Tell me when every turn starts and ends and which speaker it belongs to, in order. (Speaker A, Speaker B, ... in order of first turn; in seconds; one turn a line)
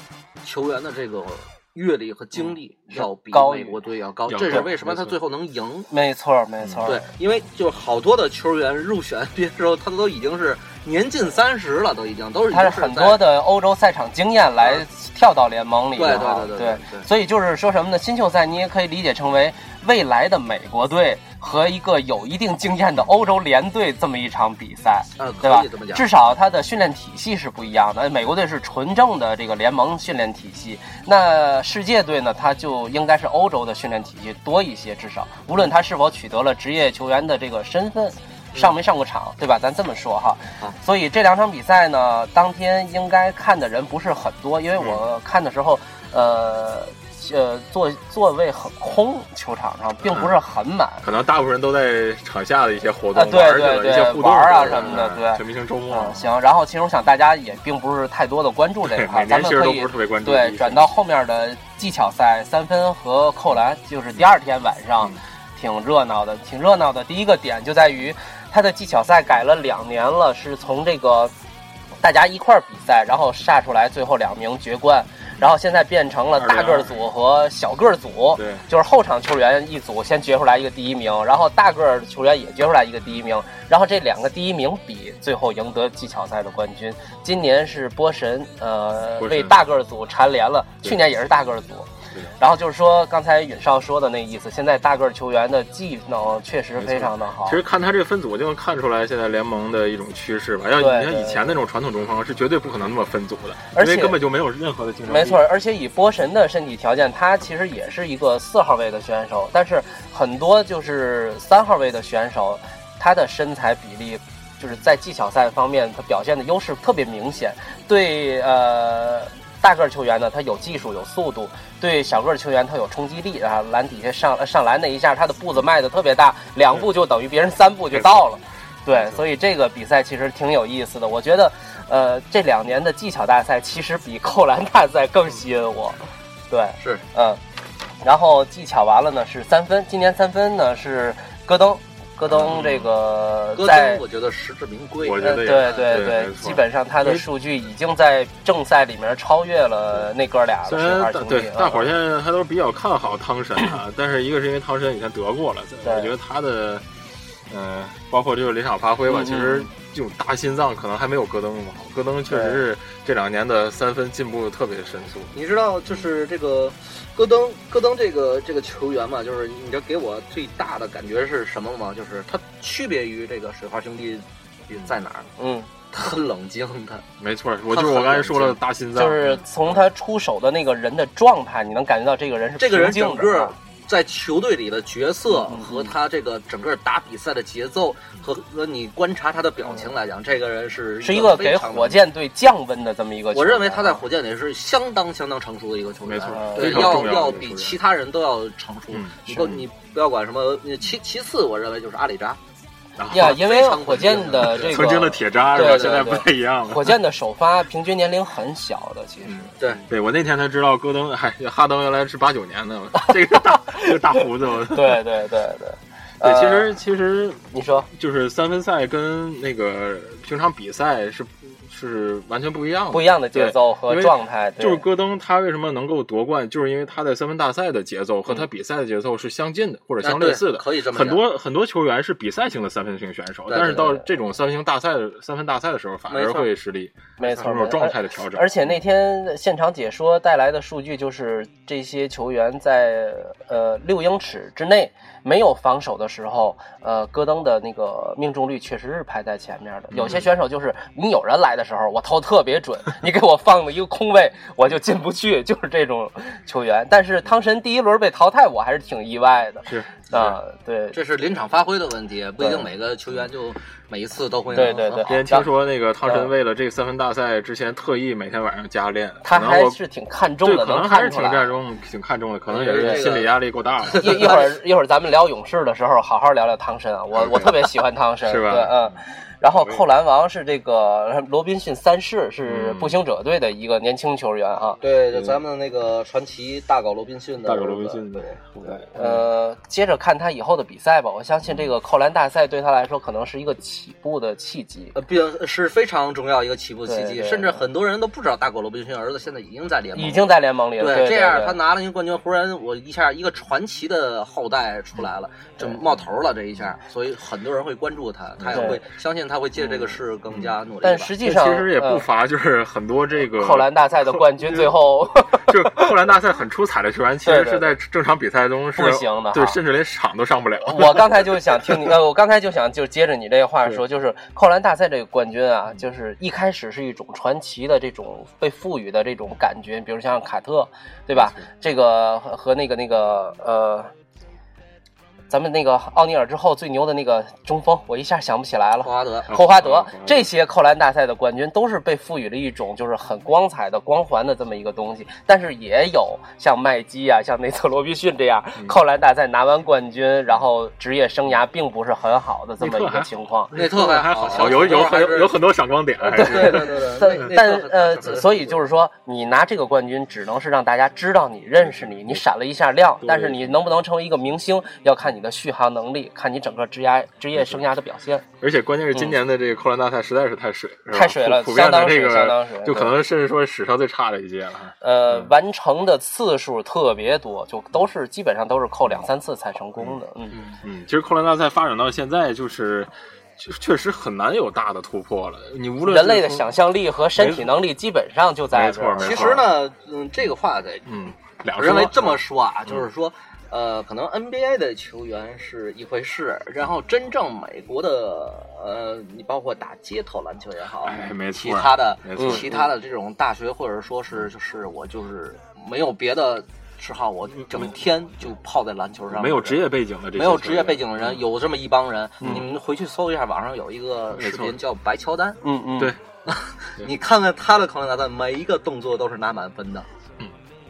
Speaker A: 0.4-5.9
Speaker B: 2.9-3.8
Speaker C: 4.3-5.2
Speaker B: 5.9-7.1
Speaker C: 6.6-6.9
Speaker A: 6.9-13.2
Speaker B: 12.5-51.1
Speaker A: 16.0-17.1
Speaker A: 25.2-26.1
Speaker C: 50.1-50.4
Speaker C: 51.0-56.3
Speaker B: 53.1-71.3
Speaker A: 54.5-55.0
Speaker C: 58.9-60.9
Speaker B: 72.0-97.6
Speaker C: 76.3-77.0
Speaker C: 78.3-78.7
Speaker C: 89.2-89.6
Speaker C: 96.8-105.4
Speaker B: 100.8-101.6
Speaker B: 103.7-104.2
Speaker B: 105.1-137.4
Speaker B: 138.0-144.0
Speaker C: 142.3-142.9
Speaker A: 143.6-146.0
Speaker C: 145.0-147.3
Speaker B: 145.2-151.9
Speaker C: 150.7-156.8
Speaker B: 155.8-156.1
Speaker C: 157.5-165.3
Speaker B: 159.1-159.7
Speaker B: 162.3-162.6
Speaker A: 165.3-175.3
Speaker B: 175.4-175.7
Speaker A: 175.9-177.1
Speaker C: 177.2-179.4
Speaker A: 177.7-178.6
Speaker B: 178.9-183.6
Speaker A: 182.6-192.0
Speaker B: 185.3-185.9
Speaker B: 191.0-194.0
Speaker A: 193.3-202.4
Speaker C: 196.1-197.8
Speaker B: 196.3-197.1
Speaker C: 198.9-199.6
Speaker C: 203.0-207.0
Speaker B: 203.1-209.5
Speaker A: 203.1-206.2
Speaker A: 209.6-209.8
Speaker C: 209.9-215.0
Speaker B: 213.0-216.8
Speaker C: 216.2-238.8
Speaker B: 217.5-217.9
Speaker B: 222.9-224.8
Speaker A: 230.0-231.2
Speaker A: 233.5-233.9
Speaker B: 233.8-234.0
Speaker A: 236.1-236.5
Speaker B: 237.2-261.0
Speaker C: 249.9-250.3
Speaker C: 259.7-260.3
Speaker A: 260.9-265.2
Speaker B: 262.4-262.7
Speaker B: 264.6-265.5
Speaker C: 264.6-269.8
Speaker B: 269.2-271.5
Speaker C: 270.4-274.4
Speaker A: 272.5-274.5
Speaker B: 272.8-273.1
Speaker B: 274.0-284.8
Speaker C: 277.1-277.7
Speaker C: 278.2-278.9
Speaker C: 279.5-279.8
Speaker C: 282.5-283.0
Speaker A: 284.8-288.4
Speaker C: 285.1-285.4
Speaker C: 287.4-289.2
Speaker B: 288.9-295.0
Speaker A: 294.9-311.1
Speaker B: 296.9-297.6
Speaker B: 299.9-301.6
Speaker C: 308.4-308.7
Speaker B: 308.5-308.8
Speaker B: 309.6-310.0
Speaker B: 310.8-312.1
Speaker C: 311.2-321.9
Speaker B: 313.3-315.9
Speaker B: 317.2-317.8
Speaker B: 318.8-319.6
Speaker B: 320.7-333.9
Speaker C: 331.1-331.4
Speaker B: 335.3-353.5
Speaker A: 338.8-339.3
Speaker C: 339.3-340.3
Speaker C: 352.6-356.9
Speaker A: 353.5-355.4
Speaker A: 356.1-358.6
Speaker B: 356.2-368.3
Speaker C: 361.6-362.2
Speaker C: 363.0-363.6
Speaker C: 367.4-367.6
Speaker C: 368.4-375.3
Speaker B: 370.9-372.9
Speaker B: 374.8-380.4
Speaker C: 380.5-386.5
Speaker B: 385.9-389.4
Speaker C: 387.2-387.5
Speaker C: 388.5-389.5
Speaker A: 389.0-391.0
Speaker C: 390.9-392.2
Speaker A: 391.6-415.4
Speaker C: 400.8-402.7
Speaker B: 402.2-402.4
Speaker C: 409.1-411.2
Speaker C: 414.1-414.6
Speaker B: 415.4-416.0
Speaker A: 416.3-419.9